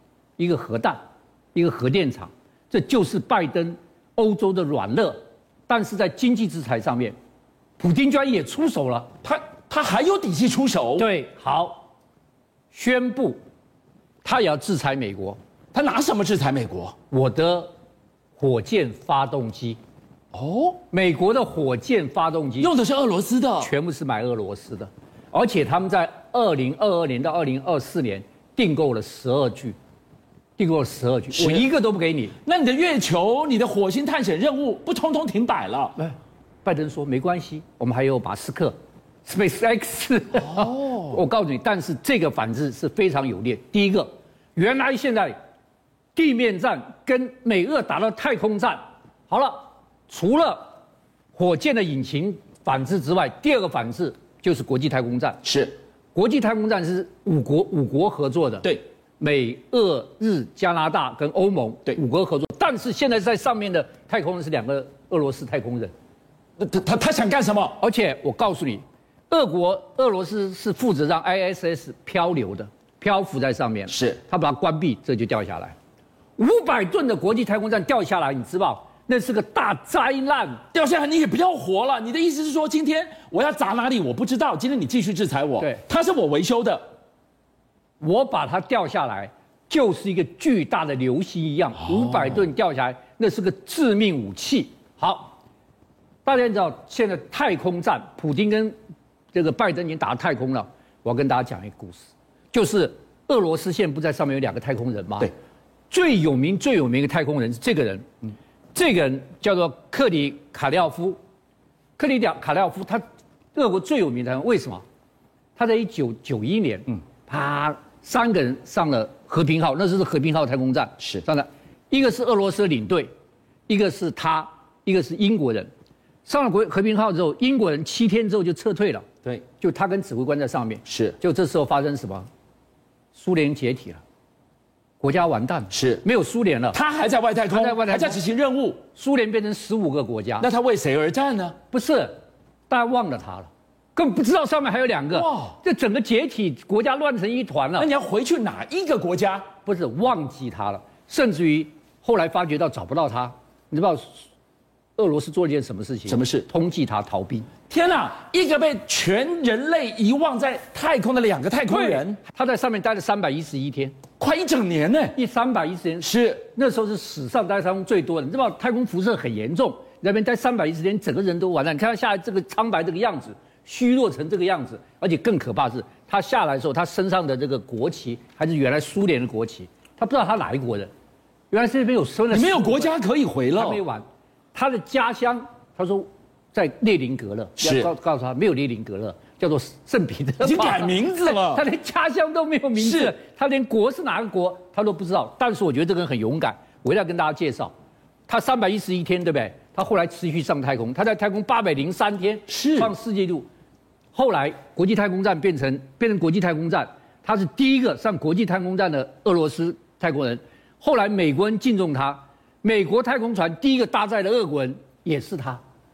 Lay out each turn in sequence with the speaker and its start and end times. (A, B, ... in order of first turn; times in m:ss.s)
0:00.4-0:01.0 A
0:01.5-0:07.2 A
0:07.8-0:09.1 A
0:09.2-0:11.1 B
0:11.0-0:11.9 A
0:12.7-0:13.4 A
0:14.2-0:15.4 A
0:15.7-0:16.9 B
0:17.1-0:17.7 A
0:18.4-0:19.8 A
0:20.3-0:20.8 B
0:20.9-0:22.7 A
0:22.6-0:23.7 B
0:23.6-0:29.8 A
0:30.6-0:32.3 A
0:31.3-0:31.7 B
0:32.4-0:36.0 B
0:36.0-0:45.4 A
0:46.2-0:50.8 A
0:51.3-0:55.4 A
0:55.4-0:55.7 B
0:56.1-1:05.9 A
1:06.6-1:07.8 B
1:07.8-1:15.7 A
1:13.9-1:14.2 B
1:16.4-1:20.6 A
1:20.7-1:26.8 B
1:28.0-1:35.4 A
1:36.2-1:38.7 A
1:39.3-1:45.3 A
1:45.9-1:48.1 A
1:48.7-1:51.2 A
1:52.0-1:53.0 A
1:53.5-1:54.8 A
1:55.6-2:03.1 A
2:03.7-2:05.7 A
2:06.2-2:09.1 A
2:09.6-2:12.3 A
2:10.9-2:11.2 B
2:13.1-2:14.0 A
2:15.0-2:16.8 A
2:15.7-2:16.0 B
2:16.7-2:18.8 B
2:17.5-2:18.2 A
2:18.9-2:20.5 A
2:20.4-2:21.6 B
2:21.7-2:22.2 A
2:22.7-2:27.9 A
2:25.1-2:25.6 B
2:27.8-2:29.4 B
2:29.6-2:34.2 A
2:35.0-2:37.5 A
2:36.1-2:36.4 B
2:37.7-2:42.2 B
2:41.7-2:44.0 A
2:44.2-2:45.2 B
2:45.2-3:00.9 A
2:46.0-2:46.4 B
3:01.5-3:02.9 A
3:02.3-3:03.8 B
3:03.5-3:17.7 A
3:07.6-3:07.9 B
3:10.4-3:11.6 B
3:12.8-3:13.1 B
3:18.3-3:23.5 A
3:22.5-3:22.9 B
3:24.1-3:35.6 A